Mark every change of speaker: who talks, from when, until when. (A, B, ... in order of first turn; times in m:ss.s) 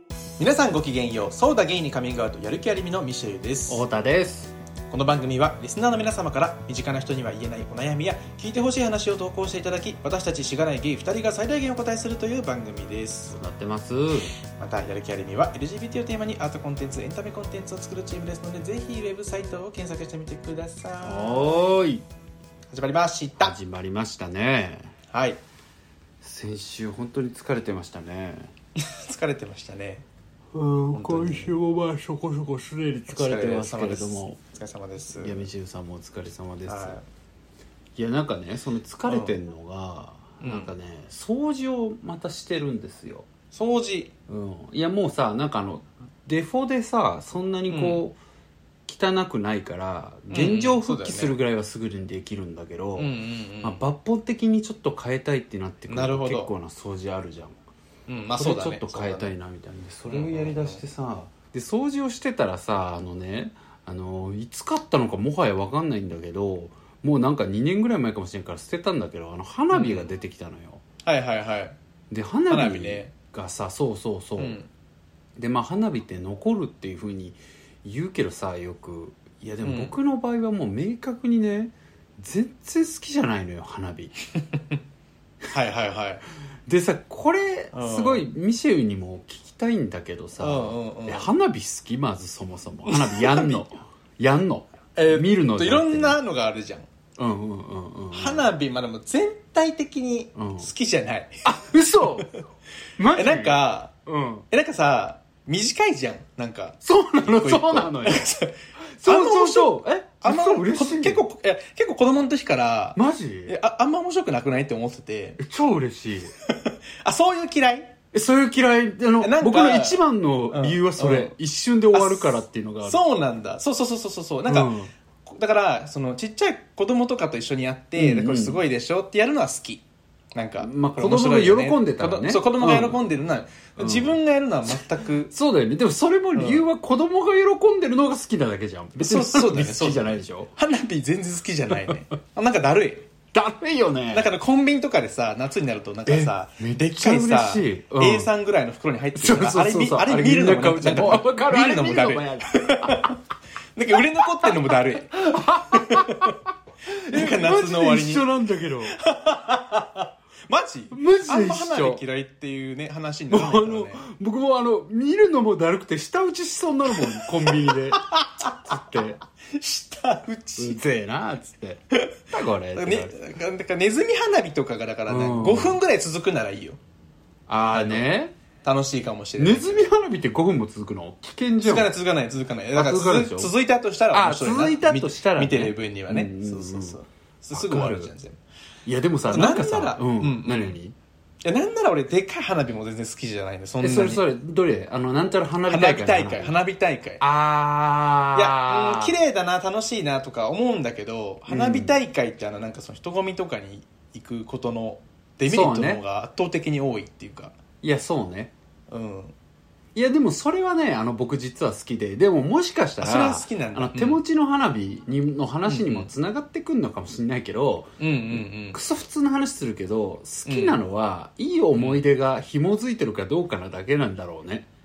0:00.4-0:03.8 A
0:03.7-0:04.5 B
0:04.9-0:13.4 A
0:13.3-0:14.3 B
0:14.6-0:21.4 A
0:21.0-0:22.0 B
0:22.7-0:23.5 A
0:23.4-0:24.9 B
0:25.1-0:25.4 A
0:26.2-0:28.5 B
0:28.8-0:30.0 A
0:30.5-0:34.4 B
0:30.9-0:31.5 A
0:33.1-0:35.4 A
0:35.1-0:37.0 B
0:36.7-0:37.0 A
0:38.0-0:43.3 B
0:39.1-0:39.4 A
0:40.4-0:40.7 A
0:43.5-0:44.1 A
0:44.3-0:48.2 B
0:47.7-0:48.0 A
0:48.9-0:57.6 B
0:50.3-0:51.4 A
0:53.0-0:53.8 A
0:55.9-0:56.5 A
0:58.1-0:59.3 A
0:58.4-1:10.8 B
1:00.1-1:00.8 A
1:09.7-1:10.1 A
1:11.0-1:11.8 A
1:12.1-1:14.6 B
1:12.5-1:13.1 A
1:14.4-1:14.7 A
1:15.4-1:24.1 B
1:19.6-1:19.9 A
1:25.5-1:26.2 A
1:26.7-1:36.2 B
1:27.7-1:28.3 A
1:30.4-1:31.3 A
1:32.9-1:33.5 A
1:35.0-1:36.9 A
1:37.2-1:38.5 B
1:38.1-1:41.4 A
1:40.4-1:40.7 B
1:41.4-1:42.3 B
1:42.2-1:42.4 A
1:43.0-1:44.4 B
1:43.1-1:43.9 A
1:44.5-1:55.4 A
1:46.8-1:48.3 B
1:49.0-1:51.2 B
1:53.0-1:53.6 B
1:55.4-1:56.3 B
1:56.5-1:57.9 A
1:58.1-2:03.0 B
1:59.2-2:01.4 A
2:01.9-2:04.7 A
2:04.5-2:04.9 B
2:05.3-2:15.3 A
2:08.0-2:08.6 B
2:10.6-2:13.0 B
2:13.8-2:14.2 B
2:15.3-2:20.5 B
2:16.4-2:16.6 A
2:19.0-2:23.1 A
2:23.3-2:24.3 B
2:24.1-2:33.2 A
2:26.1-2:28.3 B
2:29.2-2:33.2 B
2:33.8-2:36.4 A
2:34.2-2:36.4 B
2:36.9-2:39.0 B
2:36.9-2:38.3 A
2:38.9-2:44.1 A
2:40.9-2:42.0 B
2:43.3-2:49.2 B
2:47.5-2:48.6 A
2:49.5-2:50.8 A
2:50.6-2:53.2 B
2:52.8-2:56.8 A
2:55.1-2:55.8 B
2:57.5-2:58.4 B
2:57.7-2:58.1 A
2:58.6-2:59.9 A
2:59.4-3:02.0 B
3:01.6-3:08.4 A
3:02.7-3:03.5 B
3:04.1-3:07.0 B
3:07.5-3:08.1 B
3:08.9-3:11.0 B
3:09.3-3:10.8 A
3:11.4-3:14.2 A
3:13.8-3:16.6 B
3:15.7-3:17.2 A
3:17.2-3:19.2 B
3:18.3-3:27.6 A
3:21.5-3:22.0 B
3:25.5-3:26.0 B
3:27.8-3:28.5 B
3:28.9-3:29.3 A
3:30.0-3:44.7 B
3:33.0-3:34.2 A
3:35.7-3:36.1 A
3:38.0-3:38.8 A
3:40.5-3:40.8 A
3:41.8-3:42.0 A